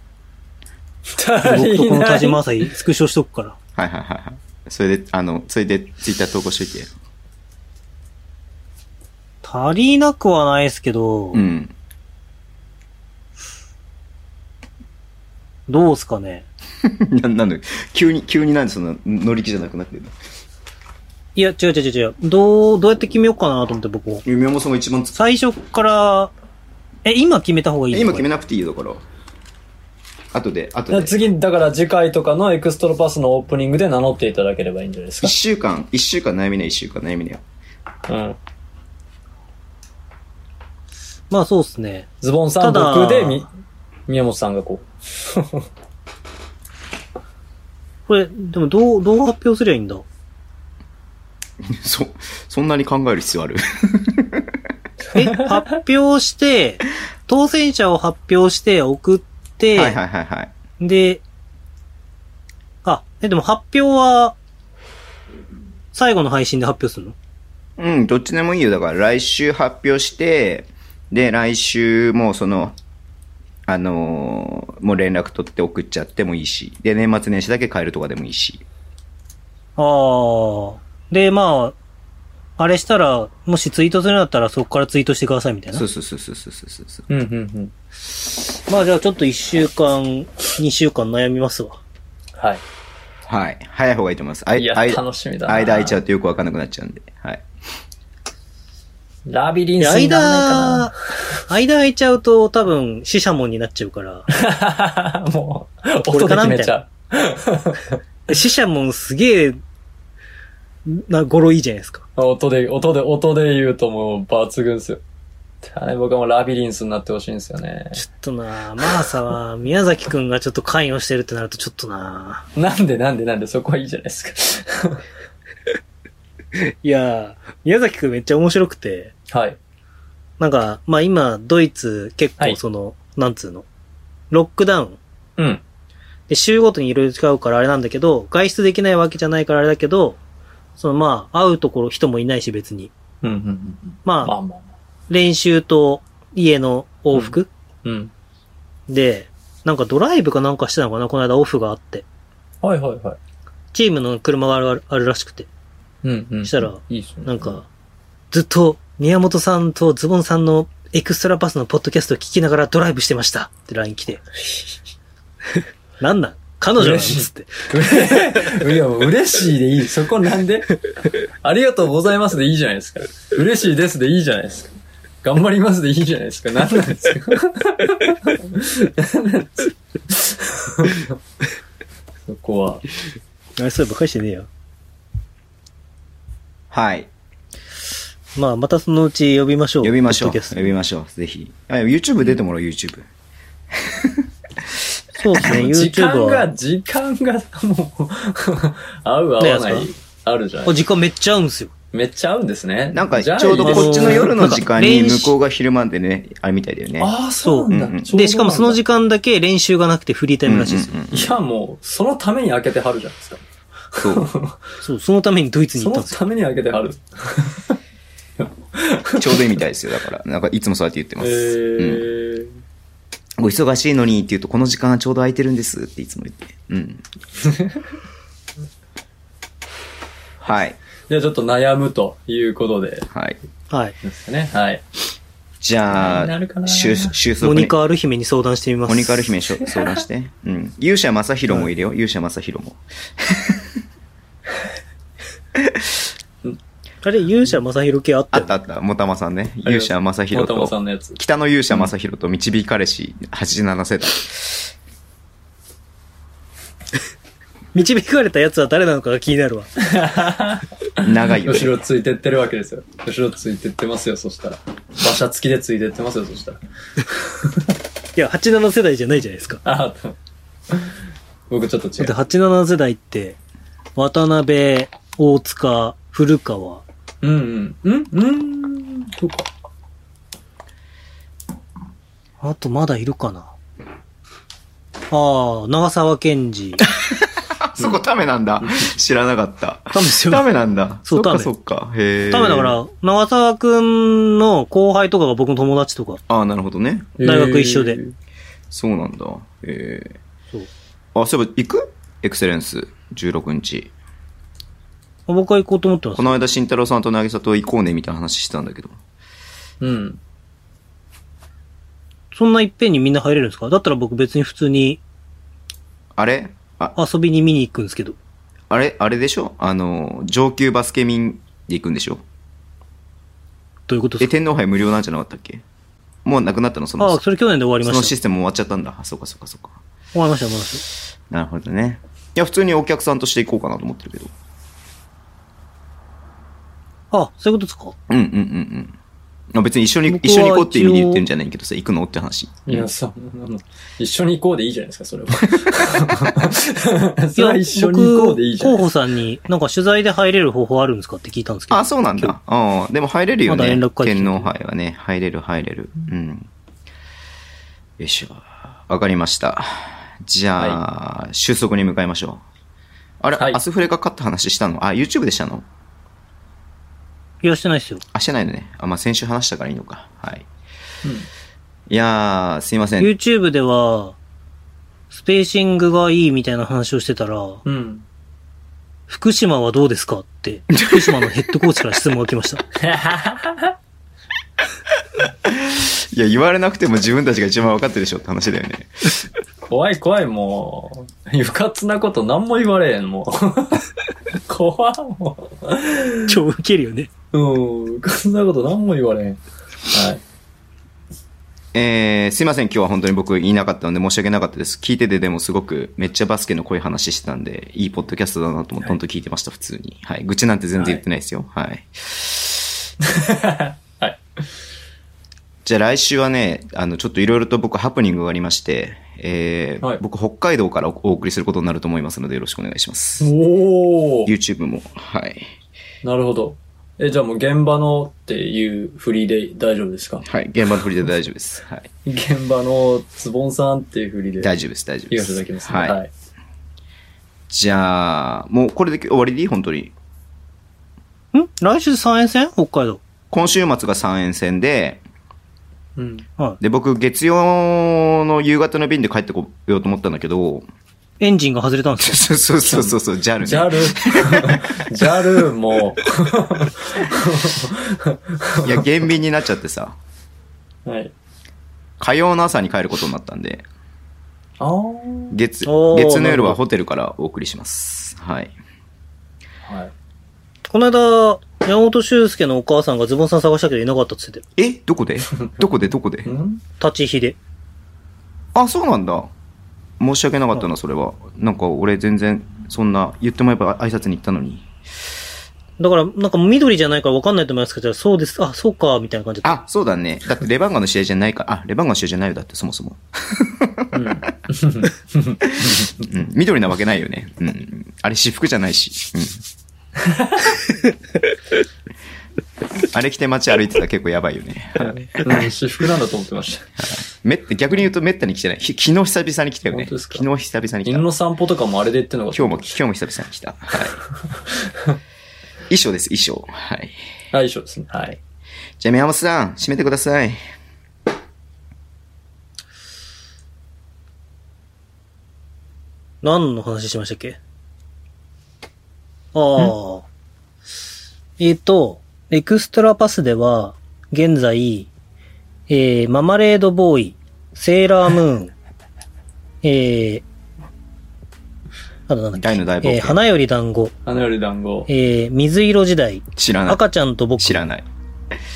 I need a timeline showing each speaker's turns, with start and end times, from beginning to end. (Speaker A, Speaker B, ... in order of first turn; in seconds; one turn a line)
Speaker A: 1.1-2.4
Speaker B: 1.4-3.6
Speaker C: 3.8-6.9
Speaker B: 9.4-11.4
Speaker C: 11.3-11.7
Speaker B: 15.7-16.5
Speaker C: 16.8-20.1
Speaker B: 21.4-24.3
Speaker C: 24.3-25.2
Speaker B: 25.1-26.3
Speaker B: 27.1-28.3
Speaker C: 27.9-29.0
Speaker C: 30.3-31.2
Speaker A: 30.9-35.3
Speaker C: 35.2-37.4
Speaker A: 38.1-38.4
Speaker B: 41.3-42.1
Speaker A: 42.2-43.5
Speaker B: 42.6-43.5
Speaker A: 44.1-45.7
Speaker B: 48.1-50.0
Speaker C: 51.6-54.4
Speaker B: 55.1-60.0
Speaker C: 59.7-60.5
Speaker B: 60.8-61.2
Speaker B: 62.9-64.4
Speaker B: 65.9-67.2
Speaker C: 67.8-72.8
Speaker C: 73.7-78.6
Speaker B: 79.8-81.8
Speaker B: 82.6-85.8
Speaker C: 85.7-87.0
Speaker A: 87.1-87.7
Speaker B: 88.7-91.8
Speaker A: 92.4-92.6
Speaker C: 93.3-97.5
Speaker A: 94.5-96.0
Speaker A: 99.3-101.0
Speaker B: 99.8-100.9
Speaker B: 101.5-104.3
Speaker A: 104.3-108.0
Speaker B: 106.0-106.8
Speaker B: 108.3-109.6
Speaker B: 110.9-112.0
Speaker A: 112.2-115.0
Speaker A: 115.6-118.0
Speaker B: 118.0-122.5
Speaker A: 122.6-125.0
Speaker B: 126.8-129.1
Speaker A: 129.3-129.6
Speaker B: 130.4-133.7
Speaker B: 134.3-135.0
Speaker A: 135.4-135.6
Speaker B: 136.3-140.2
Speaker B: 140.8-142.9
Speaker A: 143.2-144.7
Speaker B: 144.1-144.3
Speaker B: 145.1-147.5
Speaker A: 147.1-148.1
Speaker B: 148.9-152.1
Speaker A: 152.6-153.2
Speaker B: 153.7-155.5
Speaker A: 156.0-157.6
Speaker B: 156.4-157.7
Speaker B: 158.3-164.2
Speaker A: 164.4-164.8
Speaker B: 166.0-167.7
Speaker A: 166.8-170.8
Speaker A: 171.4-181.2
Speaker A: 182.2-182.8
Speaker B: 183.6-184.5
Speaker C: 186.7-187.1
Speaker B: 188.4-190.7
Speaker C: 189.8-193.1
Speaker C: 193.8-194.2
Speaker B: 195.2-196.5
Speaker A: 195.4-200.8
Speaker B: 199.4-199.9
Speaker B: 200.7-201.7
Speaker A: 201.9-204.6
Speaker C: 202.9-207.1
Speaker B: 203.6-205.3
Speaker A: 207.0-208.8
Speaker B: 207.4-210.9
Speaker C: 207.7-208.1
Speaker C: 210.4-211.3
Speaker A: 211.1-214.6
Speaker C: 214.0-214.3
Speaker B: 214.8-216.2
Speaker A: 215.8-217.8
Speaker A: 218.4-219.6
Speaker C: 219.2-222.0
Speaker A: 221.2-222.5
Speaker C: 223.4-227.0
Speaker A: 227.4-227.8
Speaker C: 230.4-230.8
Speaker A: 231.1-233.1
Speaker C: 233.1-233.4
Speaker A: 234.0-234.8
Speaker C: 235.6-237.8
Speaker A: 235.9-237.2
Speaker B: 237.4-239.3
Speaker C: 238.9-243.6
Speaker A: 239.7-240.0
Speaker C: 245.6-245.8
Speaker B: 247.0-248.6
Speaker C: 248.3-254.6
Speaker A: 249.6-251.2
Speaker B: 257.8-259.7
Speaker A: 259.8-267.7
Speaker C: 261.0-261.8
Speaker B: 268.2-269.6
Speaker A: 269.6-270.2
Speaker A: 270.7-272.1
Speaker B: 272.0-273.4
Speaker B: 274.0-276.8
Speaker A: 277.2-279.5
Speaker B: 282.4-283.5
Speaker B: 285.1-286.8
Speaker C: 287.0-292.8
Speaker A: 288.6-288.9
Speaker B: 289.9-290.5
Speaker B: 291.1-291.5
Speaker B: 292.3-296.2
Speaker C: 296.3-297.2
Speaker A: 297.2-298.1
Speaker B: 297.2-298.0
Speaker C: 298.7-300.2
Speaker C: 301.1-303.9
Speaker B: 305.3-306.4
Speaker C: 306.2-309.0
Speaker A: 309.8-310.2
Speaker B: 312.3-315.0
Speaker C: 316.1-316.9
Speaker B: 317.0-318.2
Speaker C: 318.7-322.2
Speaker B: 323.9-324.3
Speaker C: 324.2-325.6
Speaker C: 326.2-327.2
Speaker B: 327.0-328.1
Speaker C: 327.8-329.8
Speaker B: 330.1-330.8
Speaker C: 331.3-334.3
Speaker B: 337.1-337.9
Speaker C: 338.1-338.9
Speaker C: 339.5-342.9
Speaker B: 340.1-341.2
Speaker A: 342.7-348.9
Speaker B: 347.4-352.3
Speaker C: 351.7-356.5
Speaker B: 353.5-354.5
Speaker C: 358.0-362.4
Speaker C: 363.2-365.6
Speaker B: 367.4-368.0
Speaker C: 368.1-370.5
Speaker C: 371.9-373.1
Speaker B: 373.0-374.2
Speaker B: 375.1-377.6
Speaker A: 377.6-378.1
Speaker B: 379.1-382.6
Speaker C: 380.8-381.3
Speaker A: 382.8-383.8
Speaker C: 385.4-389.2
Speaker A: 389.7-396.4
Speaker B: 396.3-397.1
Speaker A: 397.3-399.4
Speaker A: 399.9-400.2
Speaker C: 401.7-412.6
Speaker A: 410.8-411.0
Speaker A: 413.1-414.2
Speaker C: 415.6-423.3
Speaker A: 423.2-424.3
Speaker C: 424.3-425.5
Speaker A: 426.0-430.3
Speaker C: 430.3-431.9
Speaker A: 432.1-434.5
Speaker C: 434.4-436.0
Speaker A: 435.1-436.1
Speaker C: 437.5-439.9
Speaker B: 441.3-443.0
Speaker C: 443.3-445.0
Speaker A: 446.0-446.3
Speaker C: 446.6-450.7
Speaker B: 451.2-452.2
Speaker C: 452.1-454.8
Speaker A: 452.6-458.9
Speaker C: 458.6-460.0
Speaker A: 460.9-461.1
Speaker C: 462.0-463.6
Speaker A: 464.6-465.4
Speaker C: 465.3-468.5
Speaker B: 465.6-466.6
Speaker A: 469.6-469.9
Speaker B: 470.7-474.4
Speaker C: 474.6-476.3
Speaker A: 476.3-476.6
Speaker B: 476.8-477.4
Speaker C: 478.6-479.3
Speaker C: 480.0-484.7
Speaker B: 485.8-489.6
Speaker C: 489.4-494.0
Speaker A: 493.9-495.9
Speaker C: 495.5-499.4
Speaker A: 500.0-500.6
Speaker C: 502.9-505.4
Speaker A: 504.8-506.7
Speaker C: 506.8-511.1
Speaker A: 509.7-510.2
Speaker A: 510.9-512.8
Speaker C: 512.4-514.0
Speaker C: 515.7-517.0
Speaker A: 517.3-518.2
Speaker C: 518.8-520.4
Speaker B: 526.2-527.4
Speaker B: 529.3-530.0
Speaker B: 531.4-534.9
Speaker B: 535.7-538.5
Speaker B: 539.6-540.2
Speaker B: 542.1-543.9
Speaker C: 542.4-543.2
Speaker A: 544.1-544.9
Speaker B: 544.9-547.6
Speaker C: 546.4-546.8
Speaker C: 547.4-547.9